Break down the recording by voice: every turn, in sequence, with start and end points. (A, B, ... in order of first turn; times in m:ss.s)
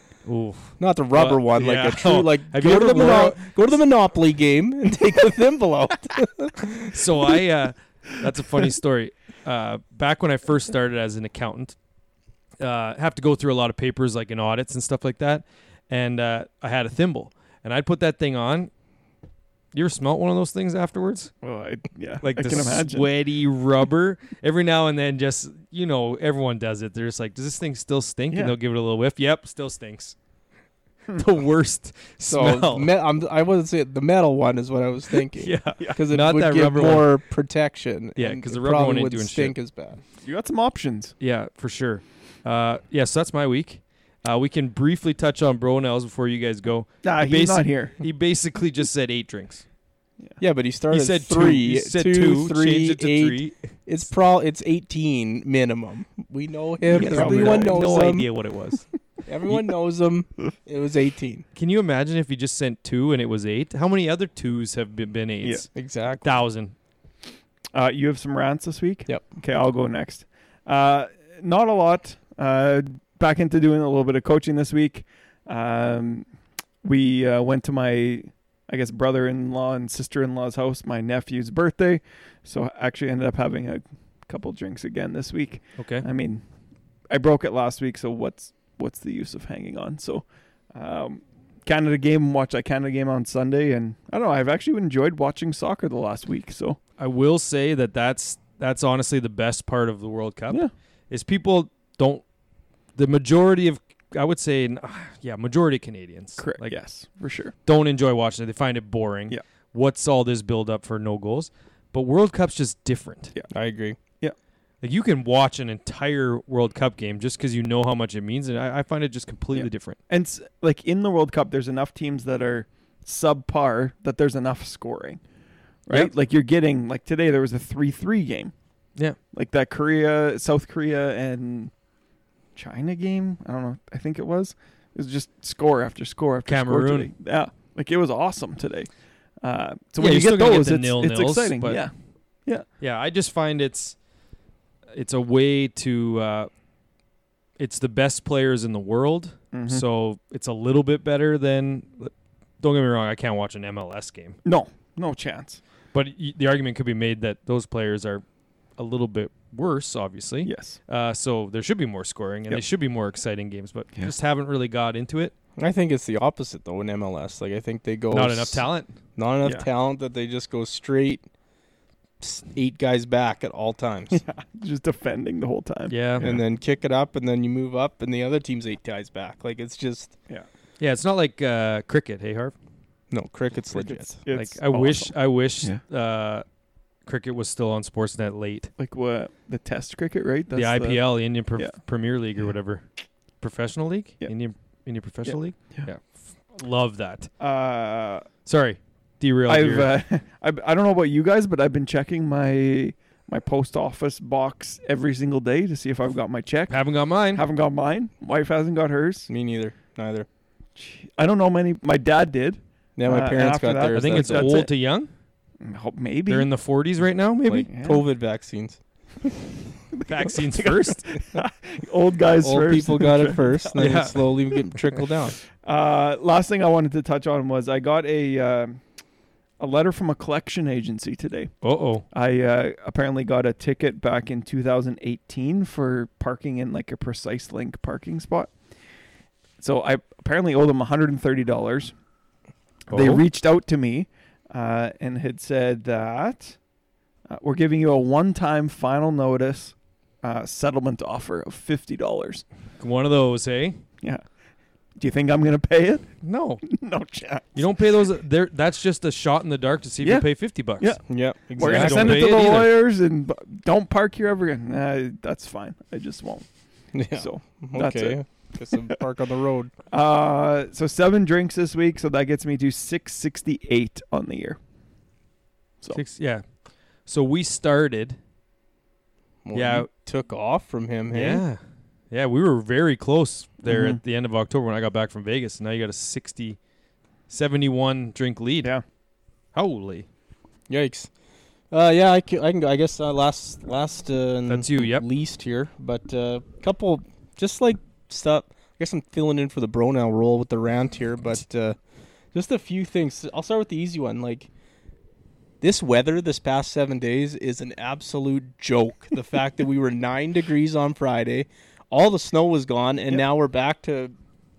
0:00.2-0:03.5 A
0:00.8-0:07.0 B
0:06.9-0:11.8 A
0:12.6-0:18.7 A
0:19.7-0:21.3 A
0:21.4-0:23.1 C
0:22.2-0:30.1 A
0:31.1-0:32.9 A
0:32.3-0:40.0 B
0:35.3-0:37.1 A
0:38.2-0:39.6 A
0:40.2-0:41.1 C
0:41.2-0:49.6 A
0:47.0-0:48.0 C
0:50.4-0:58.3 B
0:50.9-0:53.6 A
0:56.9-0:58.9 A
0:56.9-0:58.3 C
0:59.3-1:01.4 B
1:01.5-1:06.7 A
1:05.7-1:06.3 B
1:07.7-1:16.2 C
1:16.8-1:26.4 C
1:25.8-1:26.0 A
1:27.1-1:36.8 C
1:37.0-1:42.2 A
1:43.0-1:46.7 A
1:46.4-1:47.5 C
1:47.6-1:53.3 A
1:53.5-1:54.0 B
1:54.8-2:00.0 A
1:59.5-2:05.2 C
2:05.8-2:08.5 C
2:09.3-2:11.7 C
2:12.6-2:18.9 C
2:16.5-2:17.1 A
2:19.4-2:21.9 C
2:20.0-2:21.8 A
2:22.8-2:24.0 A
2:24.9-2:26.5 A
2:27.6-2:34.4 A
2:29.5-2:29.8 C
2:34.4-2:35.6 C
2:35.9-2:38.2 A
2:38.8-2:45.3 A
2:40.4-2:40.8 C
2:45.6-2:48.6 B
2:48.1-2:48.9 A
2:49.2-2:51.2 B
2:52.2-2:54.2 B
2:54.1-2:56.4 C
2:55.9-2:56.3 A
2:56.2-3:00.1 B
3:00.8-3:02.5 A
3:03.1-3:04.2 B
3:04.2-3:05.8 C
3:04.3-3:06.4 A
3:07.0-3:08.7 A
3:08.8-3:11.0 C
3:10.5-3:12.8 A
3:13.4-3:17.3 A
3:15.3-3:15.9 C
3:17.4-3:18.3 C
3:18.4-3:19.9 A
3:19.5-3:26.8 C
3:26.7-3:27.4 A
3:27.3-3:29.3 C
3:29.3-3:30.3 B
3:30.8-3:34.7 C
3:33.0-3:34.6 B
3:33.9-3:35.1 A
3:35.6-3:36.5 C
3:36.3-3:37.7 A
3:37.5-3:38.0 C
3:37.7-3:38.8 B
3:39.9-3:43.7 C
3:40.0-3:41.2 A
3:42.4-3:45.4 B
3:43.8-3:44.2 A
3:45.6-3:48.8 C
3:49.6-3:51.5 C
3:51.6-3:52.0 A
3:52.1-3:58.5 C
3:59.6-4:01.9 C
4:02.9-4:03.2 A
4:02.9-4:06.6 C
4:07.3-4:12.4 C
4:12.8-4:13.8 A
4:15.0-4:16.1 C
4:16.2-4:16.6 A
4:16.6-4:17.7 C
4:17.5-4:21.0 A
4:20.0-4:20.3 C
4:21.1-4:22.2 B
4:21.6-4:22.8 A
4:21.6-4:26.5 C
4:26.9-4:29.7 B
4:27.1-4:28.2 C
4:29.9-4:34.6 C
4:35.9-4:36.4 A
4:37.0-4:38.2 A
4:39.4-4:41.4 B
4:39.5-4:39.9 A
4:41.1-4:41.6 A
4:42.1-4:46.6 A
4:43.6-4:44.0 C
4:47.3-4:48.7 A
4:49.5-4:50.1 A
4:50.7-4:51.1 B
4:51.7-5:01.8 B
4:54.5-4:55.0 A
5:02.3-5:04.5 B
5:05.6-5:14.1 B